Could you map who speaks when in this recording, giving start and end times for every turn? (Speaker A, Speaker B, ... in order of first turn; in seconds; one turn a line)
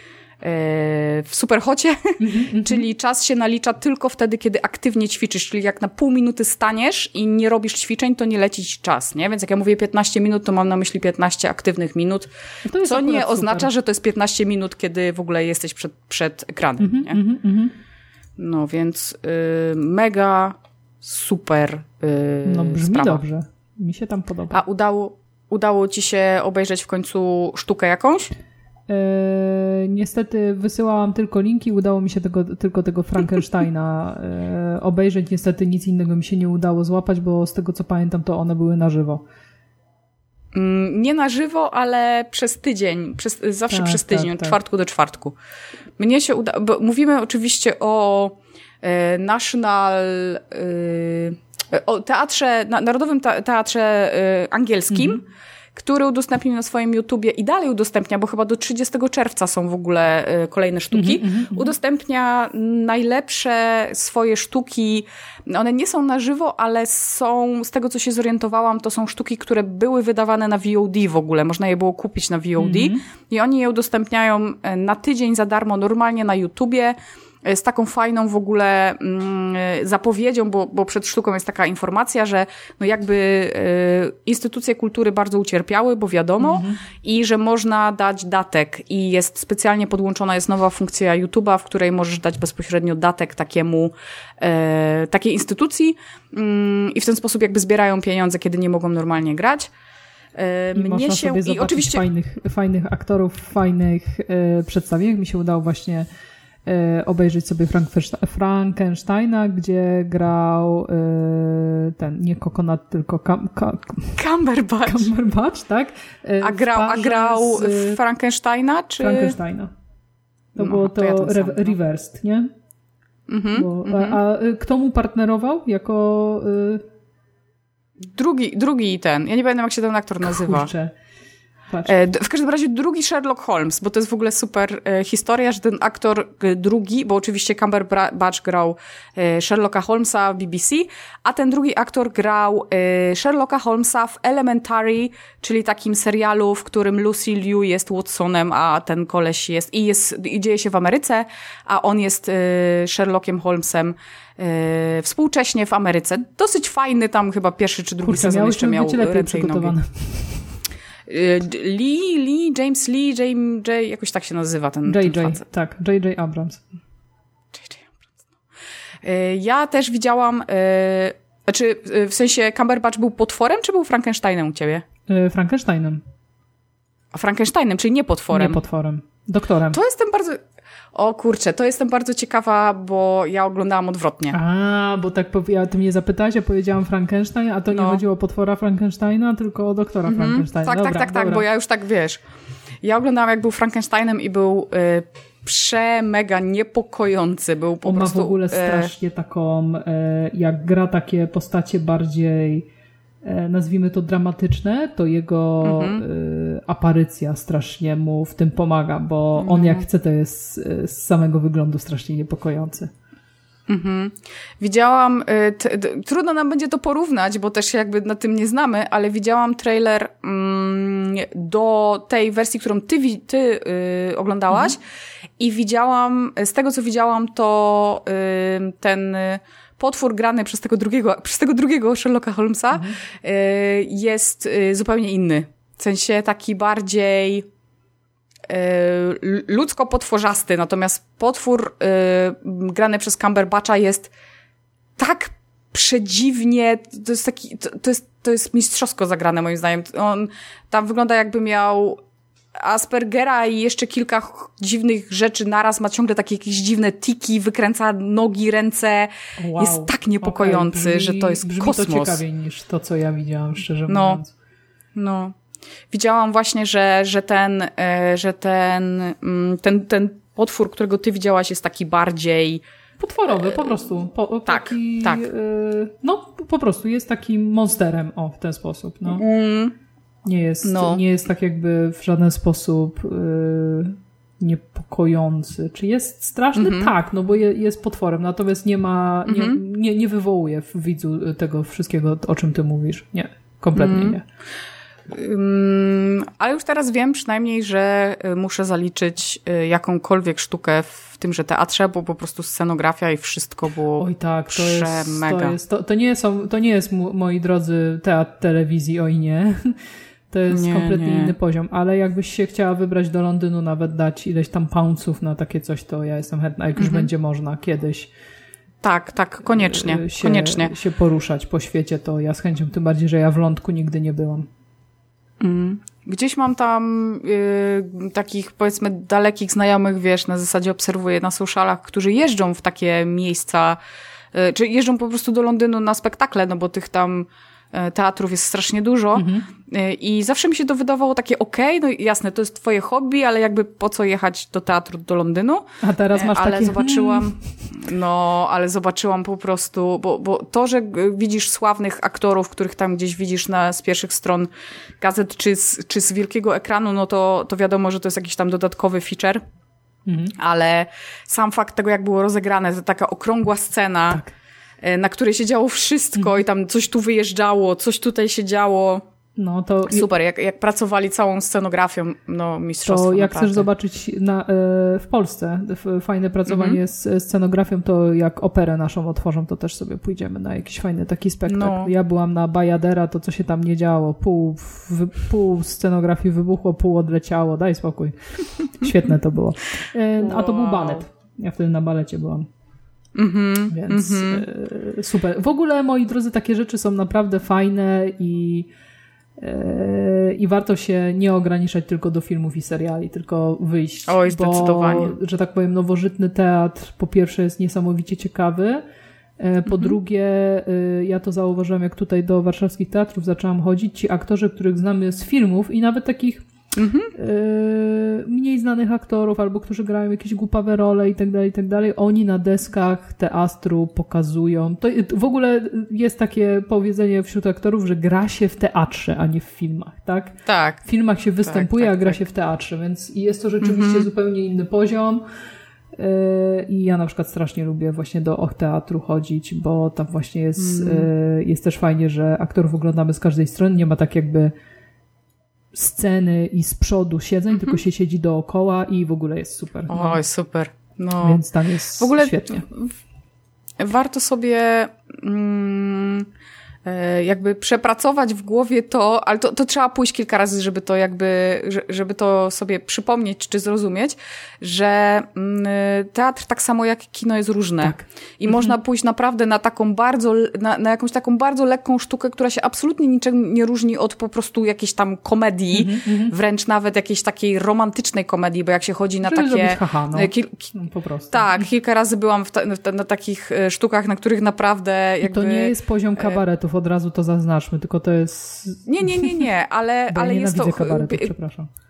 Speaker A: 0.4-12.3
Speaker B: 2.2-2.9
Speaker B: 12.7-13.7
Speaker A: 12.8-17.2
Speaker B: 16.8-17.7
Speaker A: 18.4-23.2
Speaker B: 22.4-24.6
Speaker A: 24.5-28.3
Speaker B: 28.9-39.2
Speaker A: 40.5-45.4
Speaker B: 43.7-44.6
Speaker A: 46.0-55.2
Speaker B: 54.9-55.2
Speaker A: 55.7-99.7
Speaker B: 60.9-61.7
Speaker B: 72.6-73.0
Speaker B: 86.4-86.8
Speaker A: 100.3-102.0
Speaker B: 100.7-106.1
Speaker B: 106.6-114.2
Speaker A: 114.2-115.1
Speaker B: 114.8-118.0
Speaker A: 116.4-119.3
Speaker B: 119.0-119.7
Speaker B: 120.5-122.5
Speaker A: 120.6-121.8
Speaker A: 123.3-124.2
Speaker B: 123.5-126.8
Speaker A: 128.0-130.7
Speaker B: 130.2-130.9
Speaker B: 131.7-131.9
Speaker A: 131.8-159.7
Speaker B: 158.0-160.6
Speaker A: 161.1-165.4
Speaker B: 164.8-166.6
Speaker A: 167.5-168.1
Speaker A: 169.0-174.8
Speaker B: 175.1-176.0
Speaker A: 177.1-178.6
Speaker B: 178.3-179.8
Speaker A: 179.7-180.4
Speaker A: 180.9-184.3
Speaker B: 184.3-191.4
Speaker A: 187.7-188.0
Speaker A: 190.0-192.2
Speaker A: 192.8-198.9
Speaker B: 197.8-202.7
Speaker B: 203.2-212.9
Speaker A: 205.6-206.0
Speaker A: 209.4-209.8
Speaker A: 213.7-224.8
Speaker A: 225.4-237.5
Speaker A: 238.5-244.1
Speaker A: 245.0-252.0
Speaker A: 252.6-262.2
Speaker B: 259.4-264.3
Speaker A: 263.9-264.2
Speaker A: 264.9-265.4
Speaker A: 265.9-272.6
Speaker B: 273.0-279.2
Speaker A: 273.3-273.6
Speaker A: 274.5-275.2
Speaker A: 279.1-279.7
Speaker B: 280.2-294.2
Speaker A: 280.6-281.0
Speaker A: 286.5-286.9
Speaker A: 289.2-289.6
Speaker A: 293.7-294.2
Speaker A: 295.1-305.5
Speaker B: 304.0-309.8
Speaker B: 310.3-318.1
Speaker A: 310.5-311.3
Speaker A: 316.8-317.1
Speaker A: 318.8-320.7
Speaker B: 319.6-324.5
Speaker A: 325.4-333.8
Speaker A: 334.3-359.4
Speaker B: 339.1-339.5
Speaker B: 345.8-347.8
Speaker B: 360.1-360.3
Speaker A: 360.4-364.2
Speaker A: 364.8-369.0
Speaker B: 369.4-370.1
Speaker A: 369.9-373.7
Speaker B: 372.8-392.5
Speaker A: 376.5-376.8
Speaker A: 381.4-381.9
Speaker A: 390.2-391.0
Speaker A: 393.1-394.4
Speaker B: 393.7-398.7
Speaker B: 399.4-408.8
Speaker A: 404.1-405.1
Speaker B: 409.4-416.4
Speaker A: 409.7-409.9
Speaker A: 416.7-417.1
Speaker B: 417.1-435.2
Speaker A: 430.4-430.8
Speaker A: 431.4-432.2
Speaker A: 433.6-434.1
Speaker B: 435.9-444.5
Speaker A: 440.6-441.1
Speaker B: 445.7-450.2
Speaker A: 447.5-447.8
Speaker A: 449.9-451.4
Speaker B: 451.2-452.6
Speaker A: 452.0-452.9
Speaker A: 453.8-456.3
Speaker A: 456.8-480.7
Speaker B: 467.8-468.8
Speaker B: 475.7-476.3
Speaker B: 479.2-481.6
Speaker A: 481.3-486.4
Speaker B: 485.2-489.5
Speaker A: 488.9-491.3
Speaker B: 490.1-491.7